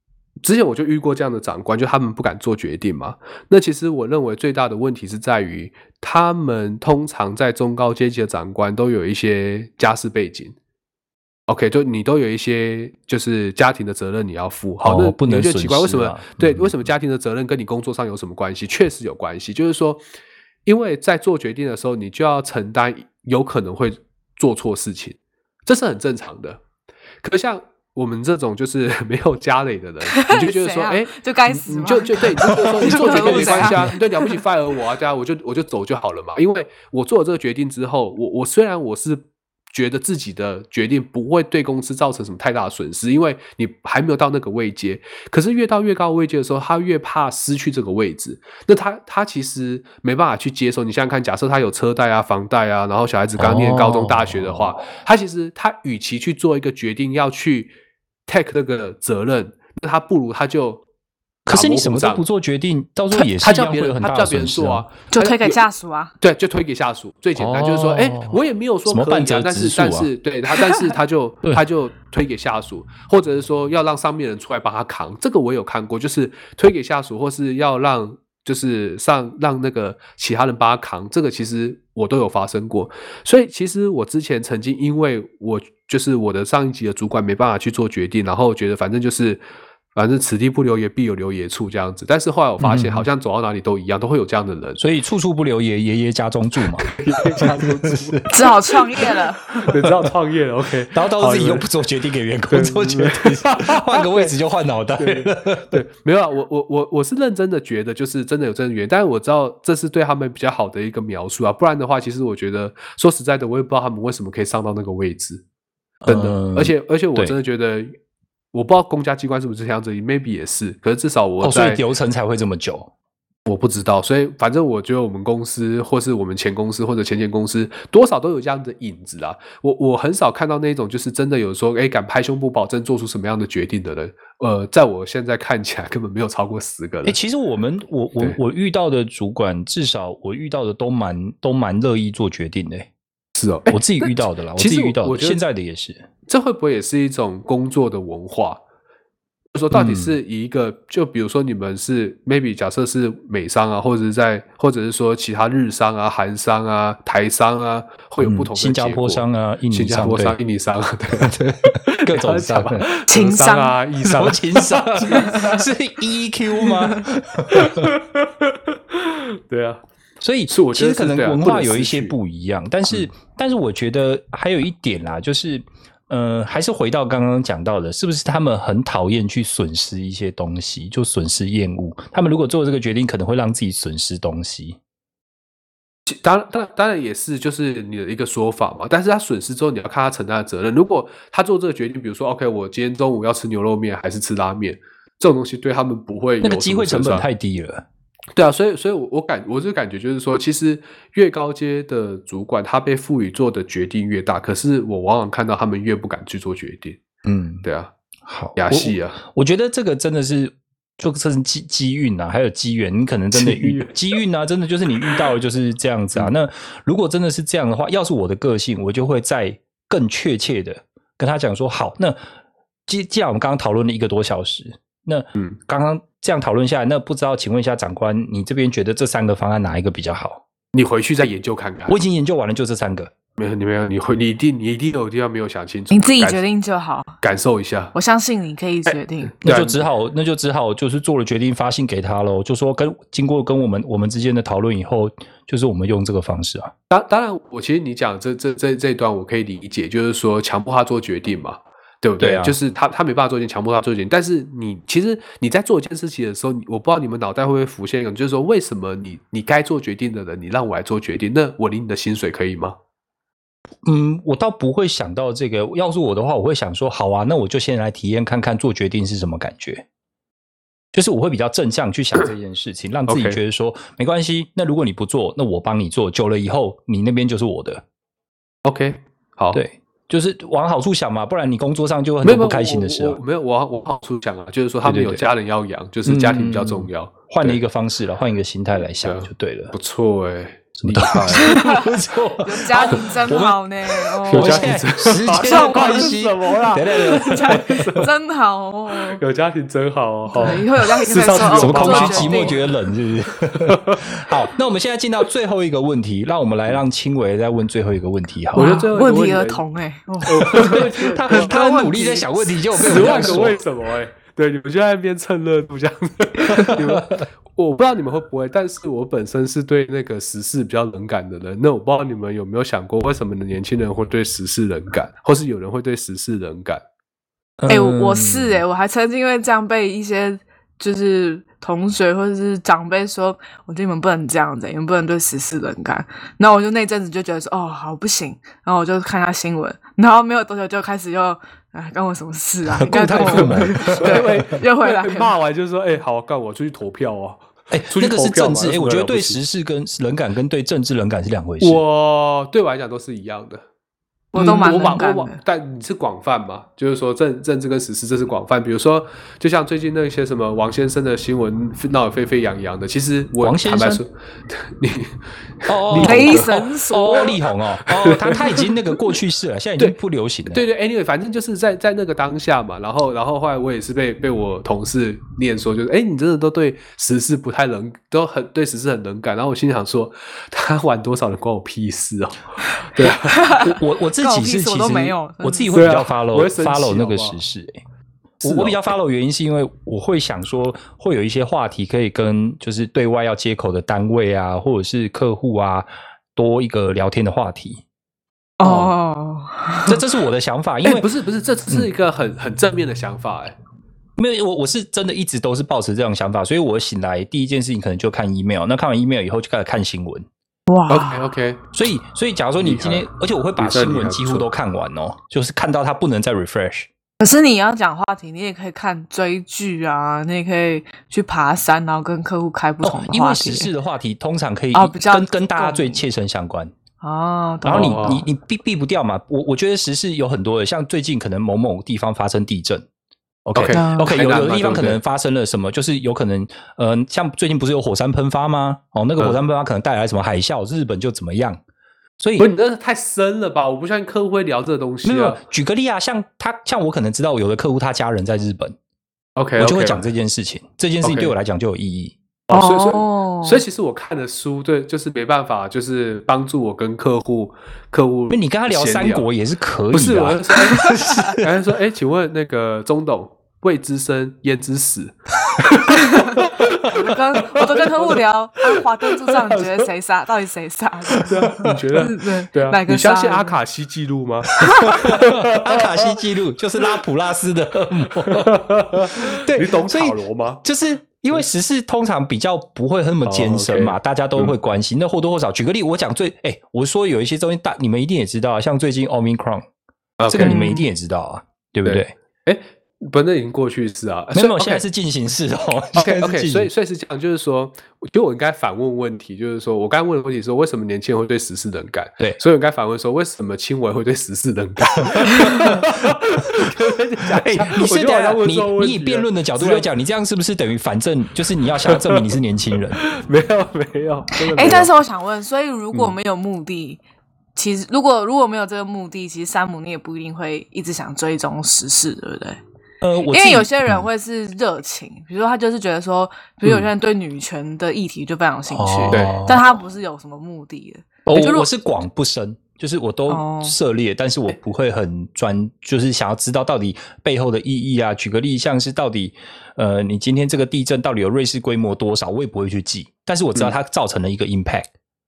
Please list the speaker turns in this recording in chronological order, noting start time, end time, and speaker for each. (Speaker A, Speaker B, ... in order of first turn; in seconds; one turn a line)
Speaker A: 0.4-10.6
Speaker A: 11.5-20.0
Speaker B: 14.8-16.7
Speaker A: 20.7-26.6
Speaker A: 27.2-57.8
Speaker C: 30.1-34.4
Speaker B: 32.5-33.9
Speaker B: 53.4-54.7
Speaker A: 58.3-60.8
Speaker B: 61.5-64.9
Speaker A: 61.5-62.2
Speaker A: 63.1-65.6
Speaker C: 65.1-66.1
Speaker A: 66.2-89.4
Speaker B: 67.4-70.1
Speaker A: 90.0-94.8
Speaker B: 92.6-93.1
Speaker B: 94.8-98.2
Speaker A: 96.8-98.4
Speaker C: 98.3-99.6
Speaker A: 99.6-101.7
Speaker B: 100.9-105.8
Speaker A: 102.5-104.3
Speaker A: 105.0-115.4
Speaker B: 116.0-117.4
Speaker A: 116.1-118.0
Speaker A: 118.5-121.8
Speaker B: 121.4-122.9
Speaker A: 123.5-137.2
Speaker B: 137.1-142.9
Speaker A: 143.4-145.4
Speaker B: 143.7-146.1
Speaker A: 146.3-148.6
Speaker A: 149.5-165.6
Speaker B: 149.7-150.2
Speaker B: 158.2-160.4
Speaker B: 161.2-162.9
Speaker C: 163.1-163.8
Speaker B: 164.0-167.9
Speaker A: 167.5-169.8
Speaker B: 170.2-184.8
Speaker A: 170.5-172.2
Speaker A: 186.1-197.3
Speaker B: 196.4-197.8
Speaker A: 198.3-207.0
Speaker B: 207.2-207.7
Speaker A: 207.6-207.9
Speaker B: 208.2-222.2
Speaker A: 208.6-209.2
Speaker A: 213.3-214.0
Speaker B: 222.9-230.4
Speaker A: 230.7-232.0
Speaker B: 231.9-233.1
Speaker A: 233.4-236.4
Speaker C: 235.9-237.2
Speaker A: 237.2-237.9
Speaker C: 237.9-239.3
Speaker A: 238.9-239.8
Speaker B: 239.4-246.7
Speaker A: 246.9-262.8
Speaker B: 252.2-252.6
Speaker B: 263.8-269.9
Speaker B: 270.9-277.8
Speaker A: 273.1-273.4
Speaker A: 278.6-279.6
Speaker B: 279.5-283.2
Speaker A: 282.2-287.6
Speaker B: 284.8-285.3
Speaker B: 286.1-289.7
Speaker A: 289.0-291.6
Speaker B: 290.8-297.8
Speaker C: 291.3-291.9
Speaker C: 292.4-294.8
Speaker A: 294.3-298.1
Speaker C: 295.3-296.2
Speaker C: 296.9-299.2
Speaker A: 299.1-302.6
Speaker C: 300.3-302.6
Speaker B: 301.5-308.7
Speaker A: 303.6-304.0
Speaker A: 308.5-309.6
Speaker C: 308.5-313.4
Speaker A: 310.3-312.0
Speaker B: 310.3-313.6
Speaker A: 312.8-326.8
Speaker B: 316.5-317.2
Speaker B: 327.6-328.6
Speaker C: 327.7-345.3
Speaker B: 342.8-344.4
Speaker A: 343.4-349.4
Speaker B: 347.7-351.8
Speaker A: 351.6-353.6
Speaker C: 354.3-355.4
Speaker A: 354.3-366.7
Speaker B: 363.4-364.0
Speaker B: 365.7-370.6
Speaker C: 365.9-367.4
Speaker A: 367.8-368.7
Speaker A: 370.5-383.6
Speaker C: 382.7-386.0
Speaker B: 383.6-387.8
Speaker A: 385.7-387.4
Speaker A: 388.4-388.9
Speaker B: 388.4-397.8
Speaker C: 398.6-400.0
Speaker A: 398.6-398.9
Speaker B: 399.9-401.1
Speaker A: 400.8-403.6
Speaker B: 404.2-410.3
Speaker C: 410.7-411.2
Speaker A: 410.9-411.6
Speaker B: 411.7-416.9
Speaker A: 412.6-413.1
Speaker A: 413.6-414.5
Speaker C: 417.2-423.7
Speaker B: 422.8-426.7
Speaker C: 424.7-426.0
Speaker C: 427.0-428.1
Speaker B: 427.6-432.9
Speaker A: 427.7-428.3
Speaker B: 433.5-441.6
Speaker A: 433.5-435.0
Speaker C: 433.7-434.2
Speaker B: 442.2-442.5
Speaker A: 442.4-445.4
Speaker B: 445.0-448.8
Speaker A: 449.4-450.1
Speaker B: 449.6-452.2
Speaker A: 451.0-451.3
Speaker A: 452.5-459.3
Speaker C: 452.5-453.6
Speaker B: 458.3-461.4
Speaker A: 459.9-469.9
Speaker C: 465.9-471.3
Speaker A: 471.1-476.2
Speaker C: 471.9-473.6
Speaker C: 474.6-474.9
Speaker B: 474.6-489.6
Speaker A: 478.3-480.6
Speaker A: 483.2-484.5
Speaker A: 490.2-490.6
Speaker B: 490.3-492.1
Speaker C: 490.4-490.9
Speaker A: 491.9-494.9
Speaker B: 494.4-496.7
Speaker A: 496.0-509.9
Speaker B: 505.1-506.6
Speaker B: 507.4-513.0
Speaker A: 511.9-512.3
Speaker A: 513.0-514.9
Speaker C: 514.5-517.0
Speaker C: 517.6-522.6
Speaker B: 523.0-524.0
Speaker C: 523.3-531.7
Speaker B: 528.7-529.6
Speaker A: 529.1-529.4
Speaker B: 531.3-544.9
Speaker C: 533.3-533.8